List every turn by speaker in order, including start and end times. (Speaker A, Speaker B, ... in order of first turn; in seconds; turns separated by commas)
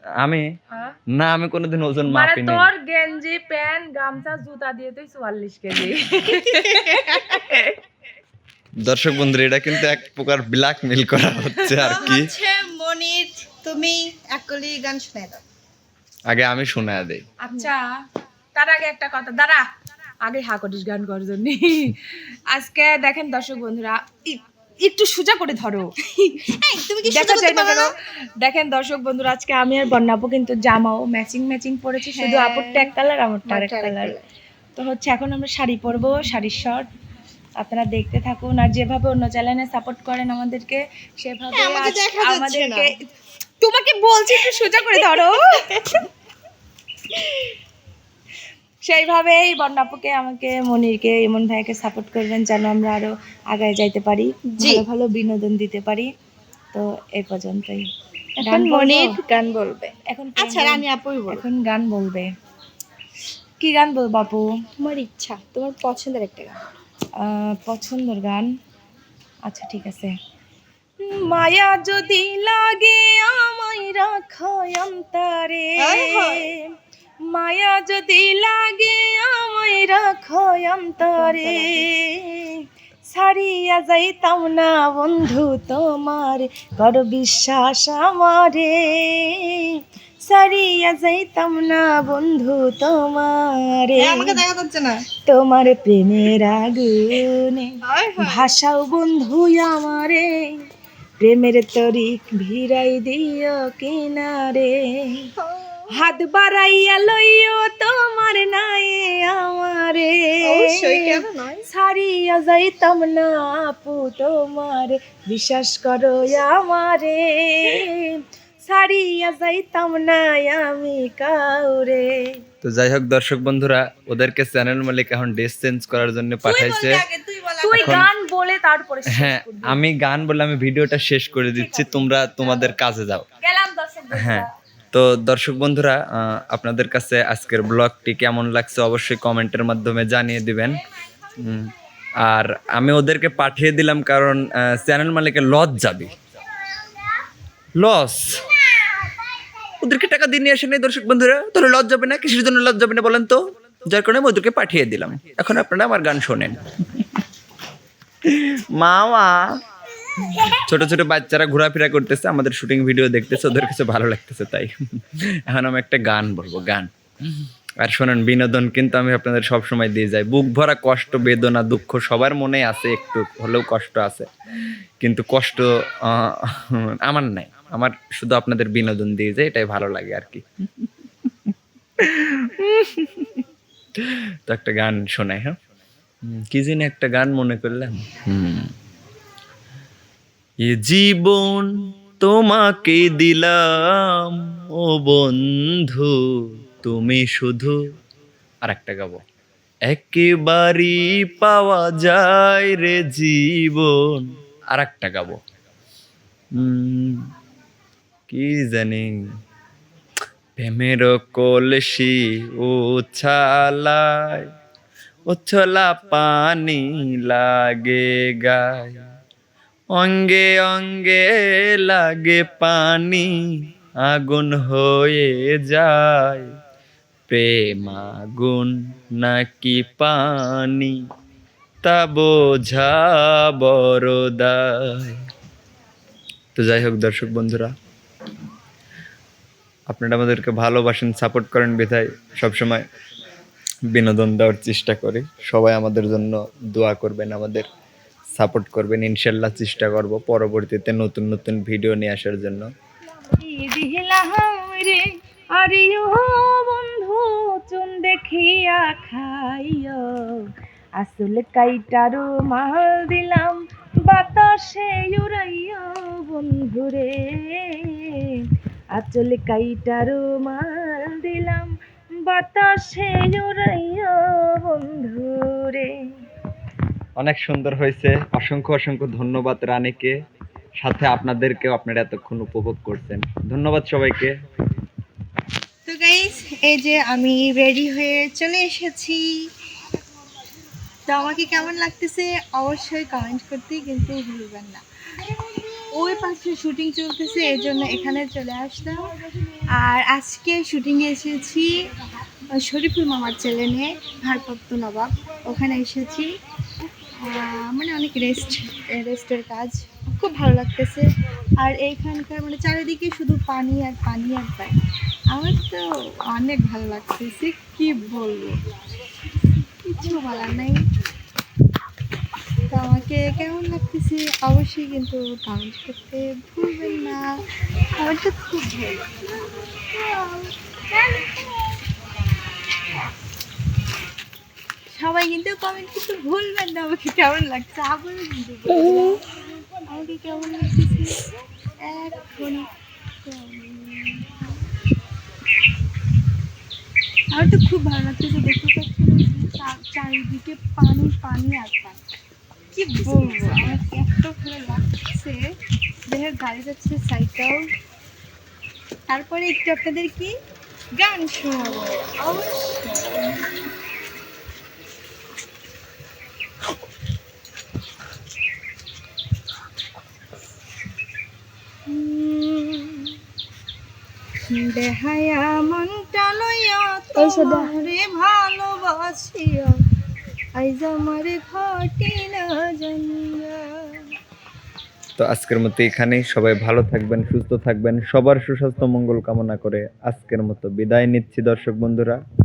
Speaker A: 0.2-0.5, Speaker A: 1.1-2.7, Speaker B: 2.0-7.8, Speaker C: 6.3-7.5, Speaker A: 8.8-12.3, Speaker B: 11.7-12.1, Speaker C: 11.8-15.4, Speaker A: 16.3-17.2, Speaker B: 17.4-17.9, Speaker B: 18.6-19.7, Speaker B: 20.2-26.4, Speaker C: 26.4-27.9, Speaker B: 27.1-34.1, Speaker C: 32.0-32.9, Speaker C: 33.5-34.2, Speaker B: 34.8-36.9, Speaker B: 37.6-43.0, Speaker C: 41.5-42.9, Speaker B: 43.6-45.6, Speaker C: 45.0-46.0, Speaker C: 47.1-47.5, Speaker B: 48.8-56.1, Speaker C: 54.5-54.8, Speaker B: 56.7-57.9, Speaker C: 58.4-61.4, Speaker B: 58.4-59.1, Speaker B: 60.1-62.3, Speaker B: 63.6-64.5, Speaker C: 64.8-66.6, Speaker B: 67.2-68.5, Speaker B: 69.5-70.1, Speaker B: 71.0-76.6, Speaker C: 75.8-76.5, Speaker B: 77.3-94.4, Speaker C: 81.0-81.9, Speaker C: 94.0-95.0, Speaker B: 95.2-100.3, Speaker C: 97.8-98.5, Speaker B: 101.2-105.3, Speaker C: 105.4-105.9, Speaker B: 105.9-111.2, Speaker C: 110.4-111.7, Speaker B: 111.7-122.1, Speaker A: 122.6-127.0, Speaker C: 126.4-128.1, Speaker B: 127.6-129.8, Speaker A: 127.7-128.1, Speaker A: 129.2-133.2, Speaker B: 131.5-132.8, Speaker B: 133.4-134.5, Speaker A: 134.1-140.8, Speaker A: 141.4-146.1, Speaker A: 147.8-148.4, Speaker A: 149.8-157.2, Speaker A: 158.2-159.4, Speaker A: 160.2-174.3, Speaker A: 175.0-180.9, Speaker A: 181.5-183.3, Speaker A: 184.0-185.5, Speaker A: 186.3-188.7, Speaker A: 190.6-196.1, Speaker A: 196.8-197.8, Speaker A: 198.6-199.2, Speaker A: 199.9-205.4, Speaker A: 206.6-207.2, Speaker A: 208.3-209.1, Speaker A: 210.6-214.4, Speaker A: 215.3-219.0, Speaker A: 219.9-223.4, Speaker A: 224.0-226.4, Speaker A: 227.3-231.0, Speaker A: 231.8-235.2, Speaker A: 236.6-237.7, Speaker A: 239.9-242.8, Speaker A: 243.9-247.7, Speaker A: 248.3-252.7, Speaker B: 253.4-255.0, Speaker B: 255.6-260.4, Speaker B: 261.0-268.4, Speaker B: 269.0-271.7, Speaker B: 272.2-275.9, Speaker A: 277.2-280.1, Speaker A: 280.8-284.4, Speaker C: 285.9-289.3, Speaker C: 291.1-294.8, Speaker C: 295.8-299.1, Speaker C: 299.7-301.7, Speaker C: 302.5-306.3, Speaker C: 307.2-311.1, Speaker C: 311.6-314.7, Speaker C: 315.3-318.6, Speaker C: 319.8-320.8, Speaker C: 322.7-327.4, Speaker C: 328.0-331.7, Speaker C: 334.9-339.2, Speaker C: 339.9-341.2, Speaker C: 341.8-342.7, Speaker C: 343.2-344.3, Speaker C: 347.3-352.0, Speaker C: 352.7-355.4, Speaker B: 353.2-353.5, Speaker C: 356.1-357.6, Speaker C: 359.1-360.3, Speaker C: 360.9-363.4, Speaker C: 371.9-373.1, Speaker C: 374.5-379.7, Speaker B: 377.2-377.7, Speaker C: 380.6-383.7, Speaker A: 385.2-392.2